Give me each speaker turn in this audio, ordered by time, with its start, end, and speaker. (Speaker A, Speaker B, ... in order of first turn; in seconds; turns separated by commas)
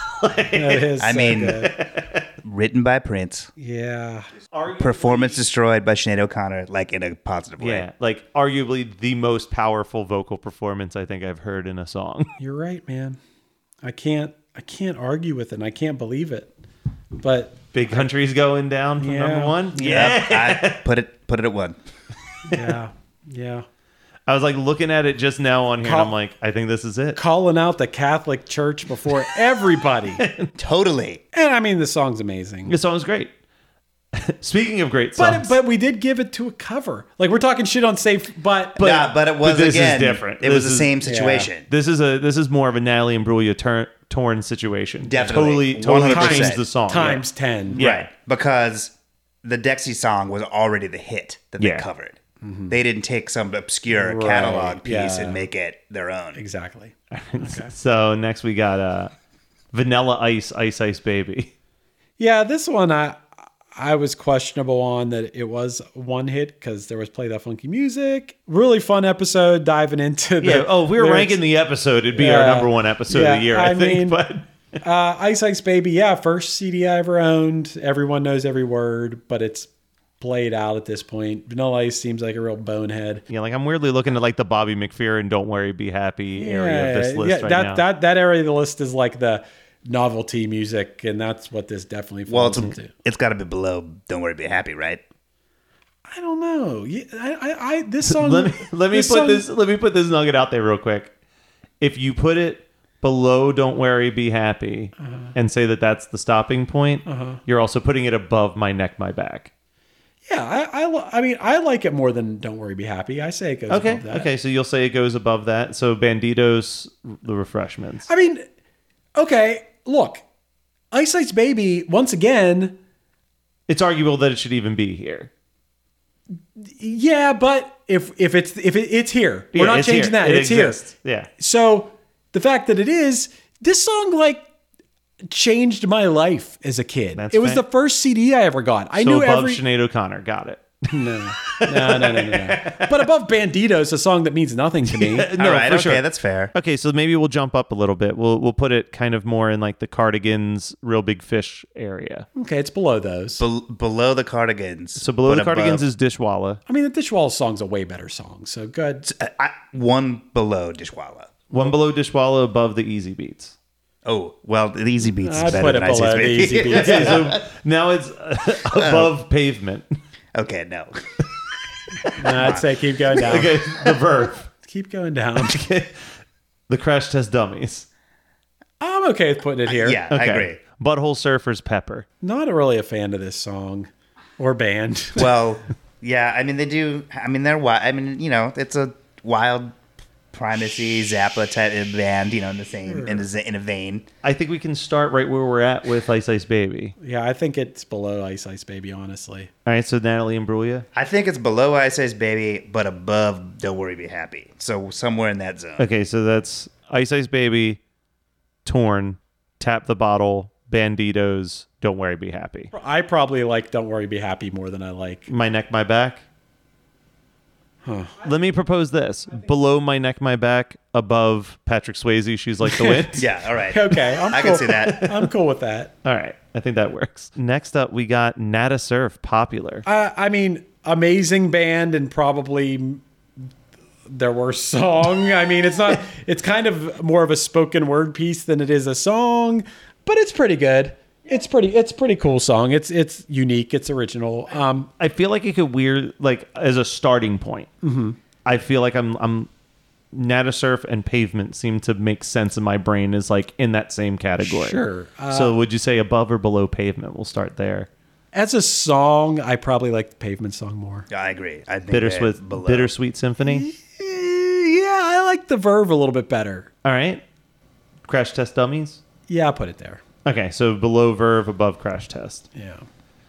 Speaker A: 0.2-0.9, Speaker B: 0.5-1.7, Speaker C: 1.0-1.6, Speaker A: 1.4-2.3, Speaker C: 2.4-3.5, Speaker B: 3.6-4.3, Speaker A: 4.5-5.4, Speaker C: 4.7-7.9, Speaker A: 7.6-12.3, Speaker B: 12.4-13.2, Speaker B: 13.8-16.5, Speaker B: 17.2-18.1, Speaker A: 17.7-20.8, Speaker B: 19.0-20.1, Speaker C: 19.8-21.8, Speaker B: 22.5-23.7, Speaker A: 24.3-27.2, Speaker B: 25.8-26.1, Speaker B: 27.1-30.2, Speaker A: 30.2-30.5, Speaker C: 30.6-31.2, Speaker B: 31.3-32.7, Speaker A: 32.7-33.3, Speaker A: 34.1-35.5, Speaker B: 35.2-38.8, Speaker A: 38.8-41.0, Speaker C: 38.8-41.7, Speaker B: 41.0-41.5, Speaker A: 41.7-48.1, Speaker C: 45.0-46.6, Speaker B: 46.1-47.8, Speaker C: 47.8-48.9, Speaker C: 49.4-52.2, Speaker A: 51.6-51.9, Speaker B: 52.4-52.8, Speaker C: 52.7-56.4, Speaker B: 53.9-55.5, Speaker B: 56.4-57.7, Speaker A: 57.1-59.1, Speaker A: 59.7-61.5, Speaker B: 62.2-71.4, Speaker A: 70.4-74.5, Speaker B: 72.2-74.2, Speaker B: 74.8-79.7, Speaker B: 80.2-83.2, Speaker A: 83.3-87.8, Speaker B: 86.4-92.9, Speaker C: 92.3-95.0, Speaker B: 96.1-99.5, Speaker A: 98.0-101.1, Speaker A: 101.8-109.5, Speaker B: 105.0-105.3, Speaker B: 107.1-107.4, Speaker B: 110.3-114.3, Speaker A: 113.7-118.1, Speaker B: 118.1-118.5, Speaker B: 119.2-120.2, Speaker B: 120.9-122.8, Speaker A: 123.7-125.3, Speaker B: 126.6-130.8, Speaker A: 129.5-131.3, Speaker B: 131.4-134.5, Speaker B: 135.3-139.6, Speaker A: 137.2-137.6, Speaker A: 139.0-140.9, Speaker B: 140.9-145.3, Speaker A: 141.4-143.0, Speaker A: 144.9-152.3, Speaker C: 145.3-146.5, Speaker B: 152.4-153.4, Speaker C: 153.4-155.8, Speaker A: 155.0-156.6, Speaker B: 156.7-159.1, Speaker C: 159.1-161.3, Speaker A: 161.5-163.6, Speaker C: 164.1-167.4, Speaker B: 165.2-167.2, Speaker A: 166.7-170.0, Speaker C: 168.7-169.1, Speaker C: 170.3-171.1, Speaker A: 172.1-172.5, Speaker B: 172.2-173.6, Speaker C: 172.3-172.6, Speaker A: 173.1-174.5, Speaker B: 174.6-175.6, Speaker A: 175.4-175.9, Speaker A: 176.7-177.9, Speaker B: 178.8-180.0, Speaker C: 179.7-180.6, Speaker A: 180.1-182.1, Speaker B: 182.2-185.3, Speaker C: 185.2-189.8, Speaker C: 190.3-194.1, Speaker B: 192.9-193.3, Speaker A: 194.2-196.9, Speaker B: 197.0-199.5, Speaker A: 199.7-200.8, Speaker C: 200.9-205.9, Speaker A: 205.8-207.8, Speaker A: 208.7-212.7, Speaker B: 212.7-215.3, Speaker A: 215.3-216.2, Speaker B: 217.8-218.2, Speaker A: 218.2-223.3, Speaker B: 222.7-223.2, Speaker C: 223.2-225.1, Speaker B: 223.7-225.9, Speaker A: 226.1-229.8, Speaker B: 229.8-233.0, Speaker B: 234.1-244.9, Speaker A: 245.0-247.7, Speaker B: 247.8-248.2, Speaker A: 248.4-249.5, Speaker A: 250.1-257.9, Speaker B: 254.4-255.6, Speaker B: 258.3-261.1, Speaker C: 261.1-262.9, Speaker A: 261.9-263.7, Speaker B: 263.4-266.7, Speaker A: 266.8-267.2, Speaker A: 268.1-269.0, Speaker B: 269.3-270.0, Speaker A: 270.2-272.5, Speaker B: 272.6-272.9